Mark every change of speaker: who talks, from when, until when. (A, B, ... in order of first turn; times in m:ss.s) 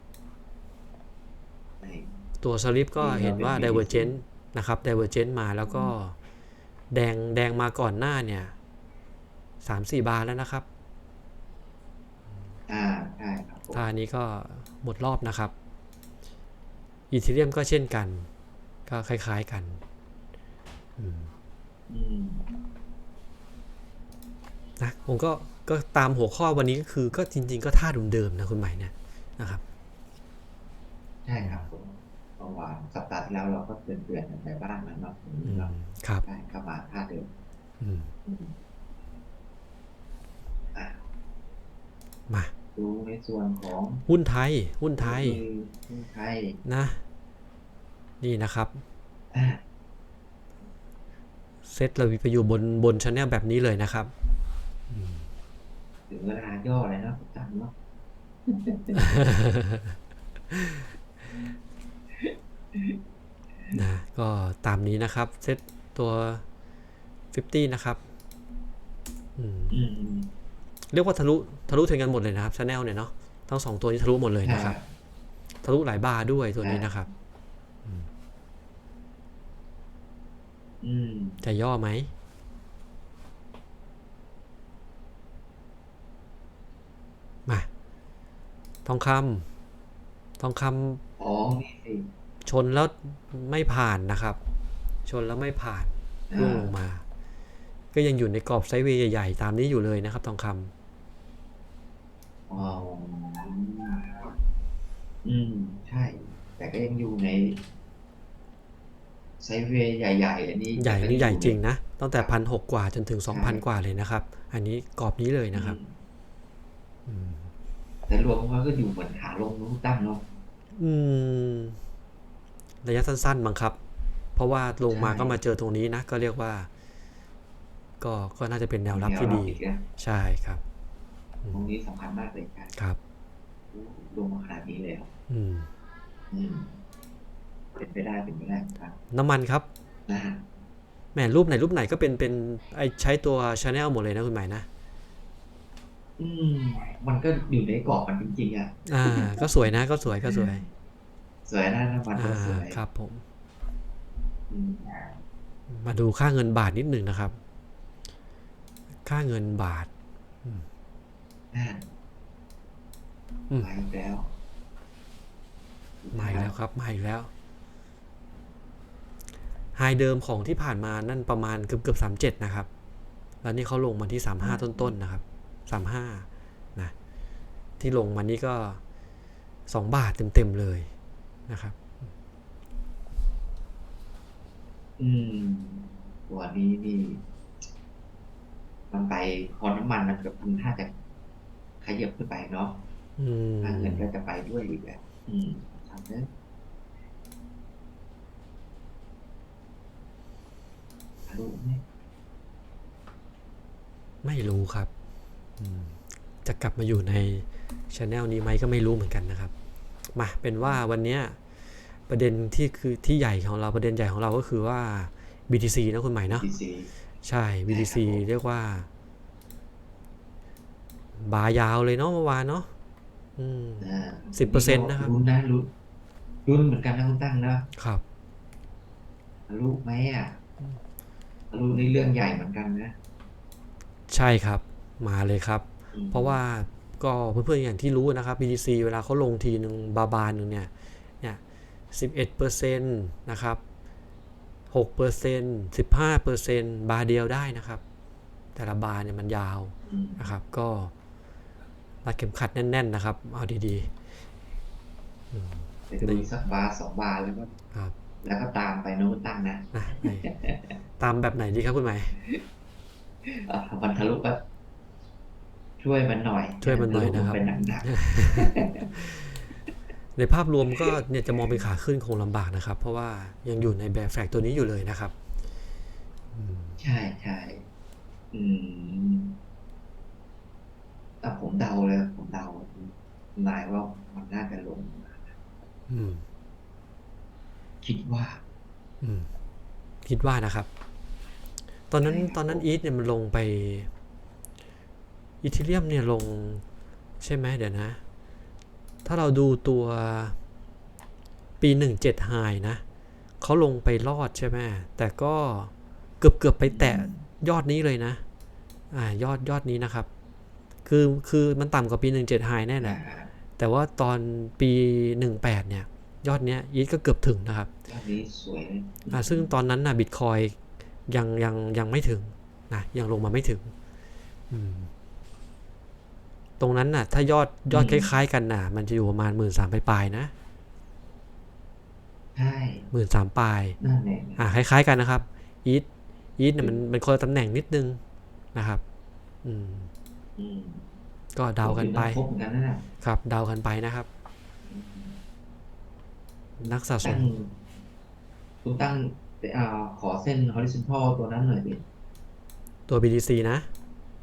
0:01.8-0:02.1 A
0:02.4-0:06.1 B
0:03.0-0:04.1 A
0:05.7-0:05.9 A
0:06.9-0:08.5 B
0:09.6-0:10.6 B
0:12.7-0:13.8 A
0:13.7-0:15.5 B
0:17.1-0:18.3 B
0:18.9-0:19.8 B
0:21.0-0:21.3 B
0:21.9-0:22.5 A
0:24.8-0:29.6 B
0:31.2-0:35.7 A
0:31.4-0:31.7 B
0:35.4-0:36.2 B
0:36.2-0:37.3 A
0:37.8-0:38.1 B
0:38.2-0:38.6 A
0:40.7-0:41.0 A
0:42.8-0:44.0 A
0:44.1-0:45.4 B
0:45.0-0:46.6 A
0:46.6-0:47.0 B
0:48.2-0:48.8 B
0:49.3-0:49.6 A
0:51.6-0:54.1 B
0:54.9-0:55.3 B
0:56.1-0:57.7 A
0:58.4-0:59.2 A
0:59.1-1:00.0 B
1:00.5-1:00.8 B
1:03.7-1:06.4 B
1:07.3-1:08.0 B
1:09.4-1:09.8 B
1:09.7-1:10.3 A
1:10.9-1:14.8 B
1:14.4-1:14.9 A
1:15.6-1:17.1 B
1:16.6-1:16.9 A
1:20.8-1:21.4 A
1:21.4-1:22.1 B
1:28.8-1:29.5 B
1:30.4-1:31.0 B
1:31.2-1:32.1 A
1:32.4-1:34.4 B
1:35.1-1:37.0 B
1:36.3-1:36.7 A
1:37.9-1:40.7 B
1:42.5-1:44.3 A
1:45.2-1:47.6 A
1:49.4-1:51.6 A
1:50.8-1:55.8 B
1:53.3-1:53.6 A
1:55.5-1:56.0 A
1:57.1-1:57.5 B
1:58.1-2:00.2 A
2:00.7-2:01.8 B
2:02.8-2:03.8 B
2:04.4-2:06.7 B
2:04.9-2:05.4 A
2:08.0-2:10.6 B
2:08.9-2:09.9 A
2:11.5-2:12.8 A
2:13.7-2:15.1 A
2:15.3-2:15.7 B
2:16.3-2:16.8 A
2:17.8-2:19.0 A
2:19.1-2:19.7 B
2:20.1-2:20.4 A
2:21.1-2:24.6 B
2:26.2-2:30.5 A
2:28.9-2:30.6 B
2:31.5-2:32.8 A
2:32.1-2:33.2 B
2:34.5-2:35.2 A
2:35.7-2:37.4 B
2:39.0-2:39.9 B
2:41.5-2:41.8 A
2:43.6-2:44.3 A
2:46.0-2:46.5 A
2:46.1-2:47.3 B
2:49.8-2:52.7 B
2:53.4-2:56.9 B
2:54.4-2:55.0 A
2:57.8-2:58.8 B
2:59.7-3:00.9 B
3:01.5-3:01.8 B
3:05.0-3:07.2 A
3:08.9-3:10.9 A
3:11.8-3:12.9 A
3:13.2-3:14.0 B
3:13.6-3:16.3 A
3:21.3-3:21.8 A
3:24.2-3:24.9 B
3:25.6-3:29.5 B
3:30.1-3:31.4 B
3:32.1-3:36.5 B
3:36.2-3:36.9 A
3:37.2-3:38.9 B
3:37.7-3:38.2 A
3:41.2-3:42.7 B
3:43.4-3:45.1 B
3:43.8-3:45.7 A
3:46.5-3:47.7 A
3:47.8-3:48.0 B
3:49.5-3:50.4 A
3:51.5-3:52.9 A
3:54.1-4:00.7 B
3:55.9-3:56.4 A
4:01.9-4:03.6 B
4:04.7-4:07.8 B
4:08.5-4:10.9 B
4:09.8-4:10.2 A
4:12.0-4:13.9 B
4:15.3-4:16.3 B
4:15.9-4:17.5 A
4:18.2-4:20.7 A
4:19.7-4:20.3 B
4:21.0-4:22.2 B
4:23.3-4:24.4 A
4:25.8-4:29.1 A
4:26.6-4:29.1 B
4:30.2-4:35.1 B
4:30.8-4:31.6 A
4:36.3-4:36.8 B
4:36.8-4:37.6 A
4:38.3-4:39.4 A
4:41.2-4:45.4 A
4:45.9-4:46.2 B
4:47.8-4:48.4 A
4:49.0-4:49.3 B
4:50.0-4:50.7 B
4:51.9-4:53.9 B
4:52.0-4:52.7 A
4:55.4-4:56.6 B
4:57.2-4:58.0 B
4:59.0-5:00.4 B
5:01.6-5:02.8 B
5:03.4-5:08.2 B
5:06.7-5:07.2 A
5:08.9-5:10.1 B
5:10.9-5:13.0 B
5:12.8-5:13.3 A
5:13.6-5:17.7 B
5:17.9-5:19.5 A
5:19.1-5:20.6 B
5:21.1-5:23.7 B
5:24.5-5:24.9 B
5:26.6-5:30.3 B
5:27.7-5:28.1 A
5:32.4-5:32.9 A
5:32.9-5:33.8 B
5:33.8-5:34.6 A
5:34.4-5:35.9 B
5:36.4-5:38.0 B
5:38.5-5:38.8 B
5:39.4-5:39.9 B
5:40.4-5:40.9 A
5:41.4-5:42.2 B
5:41.6-5:42.8 A
5:43.0-5:44.1 B
5:44.6-5:45.2 A
5:46.6-5:47.3 B
5:47.0-5:47.6 A
5:48.6-5:51.8 A
5:52.9-5:53.7 B